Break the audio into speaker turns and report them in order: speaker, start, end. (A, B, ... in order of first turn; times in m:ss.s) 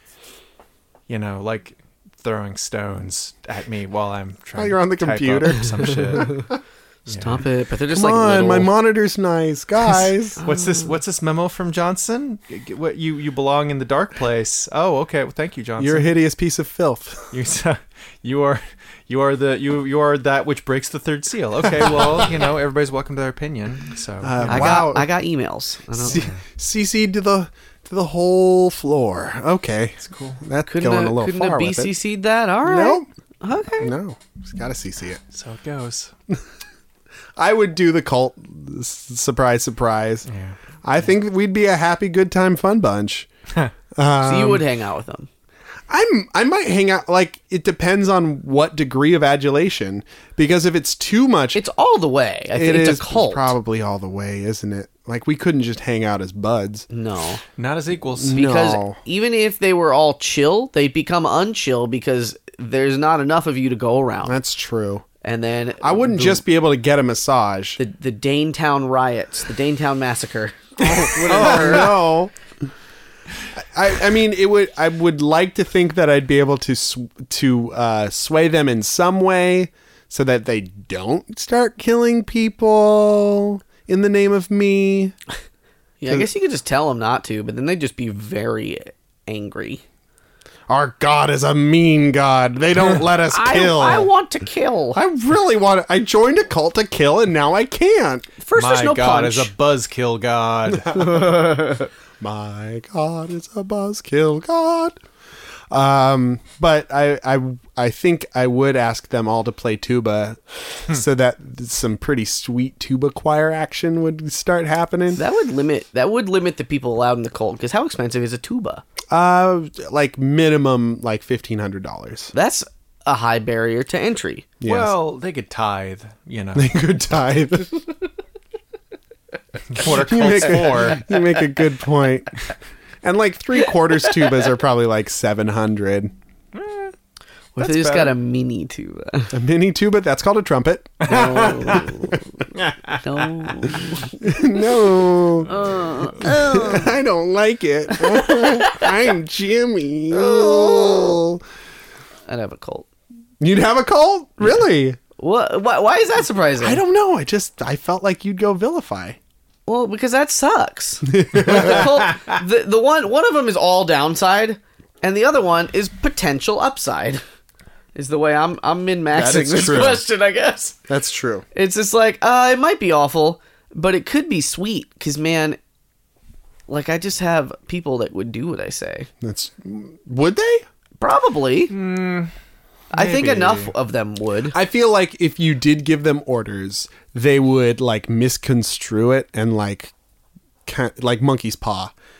0:01.1-0:06.4 A
0:04.6-0:06.4 B
0:07.1-0:07.4 A
0:07.1-0:08.7 C
0:07.9-0:10.4 B
0:10.4-0:16.1 A
0:10.4-0:10.8 C
0:15.8-0:17.3 B
0:17.3-0:24.8 A
0:24.2-0:25.1 B
0:24.4-0:26.3 C
0:26.0-0:31.9 B
0:26.0-0:26.4 A
0:30.0-0:30.4 A
0:30.6-0:33.9 C
0:32.6-0:33.0 B
0:33.8-0:35.2 B
0:35.3-0:36.1 A
0:37.4-0:40.3 B
0:40.3-0:40.6 A
0:40.8-0:43.3 B
0:43.9-0:44.6 B
0:44.2-0:45.3 C
0:45.9-0:51.6 B
0:51.5-0:53.5 C
0:52.5-0:56.9 B
0:56.9-0:57.4 C
0:57.6-0:58.4 A
0:58.2-0:59.0 B
0:58.3-1:04.4 C
1:04.2-1:05.0 B
1:05.2-1:06.4 C
1:05.8-1:07.8 B
1:07.8-1:11.9 C
1:10.8-1:12.3 B
1:13.5-1:25.1 B
1:26.0-1:29.8 C
1:30.7-1:34.1 B
1:33.3-1:35.0 C
1:34.9-1:38.3 B
1:38.4-1:39.5 C
1:38.5-1:41.1 A
1:40.7-1:45.0 B
1:41.0-1:41.9 C
1:45.7-1:55.2 B
1:55.1-1:58.8 C
1:59.1-2:02.3 B
2:02.3-2:04.5 C
2:04.6-2:04.9 B
2:04.6-2:06.7 A
2:06.5-2:07.7 B
2:09.7-2:11.0 A
2:09.8-2:12.4 B
2:13.0-2:16.1 B
2:16.5-2:16.9 A
2:17.6-2:19.3 C
2:17.6-2:18.1 A
2:19.3-2:21.6 B
2:21.0-2:22.0 A
2:21.0-2:22.4 C
2:22.5-2:23.5 A
2:23.0-2:24.3 C
2:24.2-2:25.5 B
2:25.4-2:26.9 C
2:26.2-2:31.4 B
2:28.0-2:28.9 C
2:30.1-2:31.2 C
2:32.3-2:32.9 C
2:33.4-2:35.0 B
2:35.2-2:36.8 C
2:36.6-2:39.2 B
2:39.7-2:47.2 C
2:41.1-2:42.1 B
2:47.9-2:50.8 C
2:49.1-2:50.0 B
2:50.9-2:51.4 B
2:51.5-2:55.6 C
2:56.7-2:59.1 C
2:59.2-3:00.6 B
3:01.0-3:01.7 C
3:01.7-3:02.3 A
3:02.9-3:04.6 C
3:02.9-3:03.7 A
3:04.5-3:09.9 B
3:10.6-3:11.9 B